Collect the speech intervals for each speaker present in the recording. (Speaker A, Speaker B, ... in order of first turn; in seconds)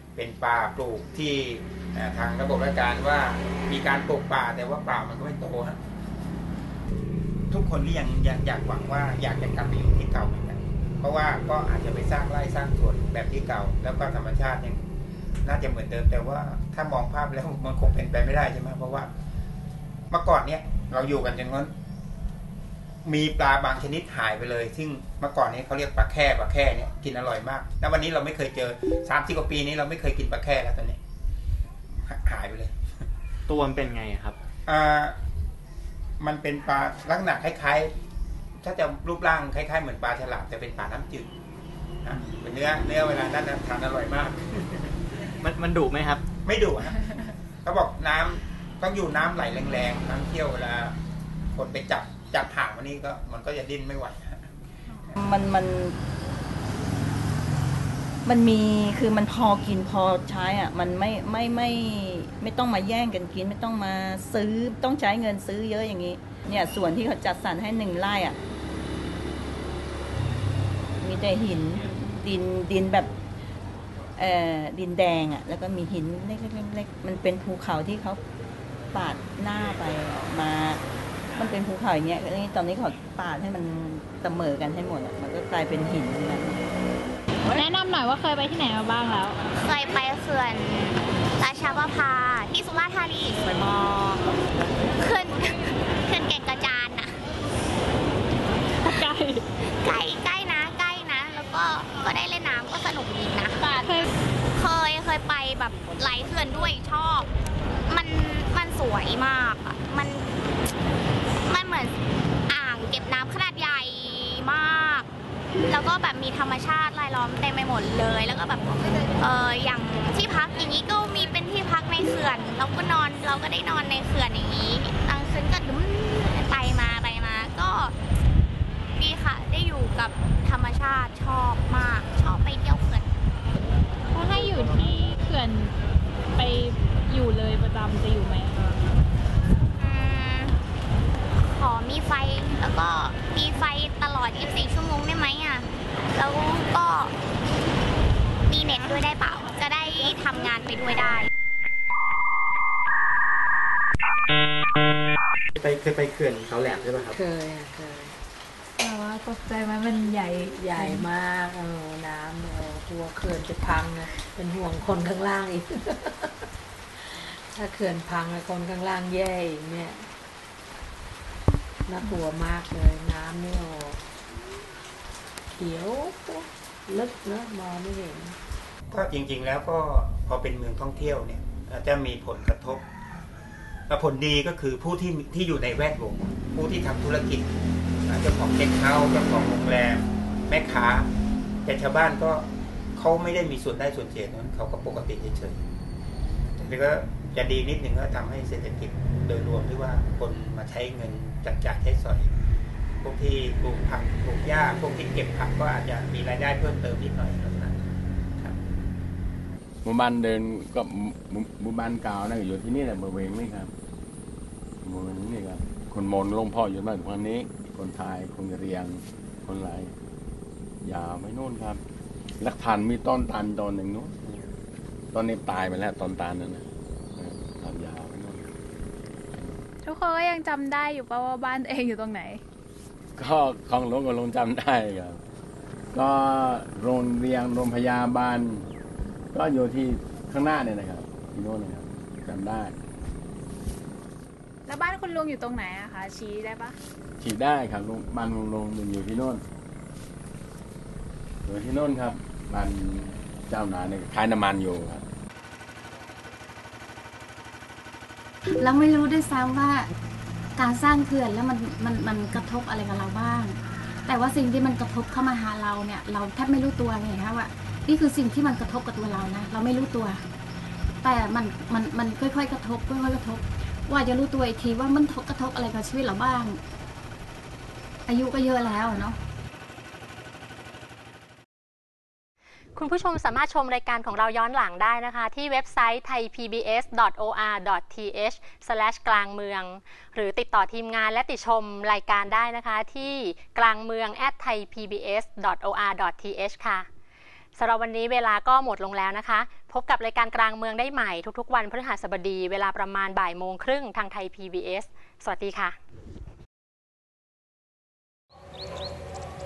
Speaker A: 0.2-5.8, 7.5-14.8, 15.4-19.1, 20.1-21.7, 23.1-31.0, 32.0-32.7, 34.7-35.2, 36.2-37.9, 38.6-41.3, 42.0-44.9, 46.5-47.1, 47.6-51.0, 51.5-54.4, 178.9-182.8, 183.9-187.5, 188.1-191.1, 191.7-195.6, 196.6-202.3, 203.0-208.6
Speaker B: 33.5-34.3, 45.4-46.2, 155.6-157.2
Speaker C: 55.2-56.0, 58.3-68.4, 71.0-73.1, 74.2-78.2, 78.9-80.8, 81.4-86.6
Speaker D: 87.5-89.4, 98.8-99.5, 103.6-104.1, 134.1-135.7, 136.3-138.8, 158.8-161.1, 229.8-232.4, 244.7-246.8
Speaker E: 89.5-94.1, 95.0-97.2, 99.8-103.6, 104.5-107.3, 107.9-110.3, 111.5-111.9, 112.5-115.1, 115.7-127.9, 129.0-133.1, 139.8-140.6, 141.4-147.1, 148.5-151.3
Speaker F: 157.1-158.2, 160.5-170.1, 171.9-174.1, 175.6-178.4
Speaker G: 209.8-213.7, 214.8-219.9, 220.8-221.8, 222.4-224.4, 225.1-226.6, 227.2-228.4, 233.2-235.2, 235.9-238.7, 239.3-242.8, 247.2-249.4, 251.4-255.0
Speaker H: 258.6-259.9, 260.6-270.2, 271.0-276.6, 278.1-279.2
Speaker I: 282.8-296.9, 297.6-305.8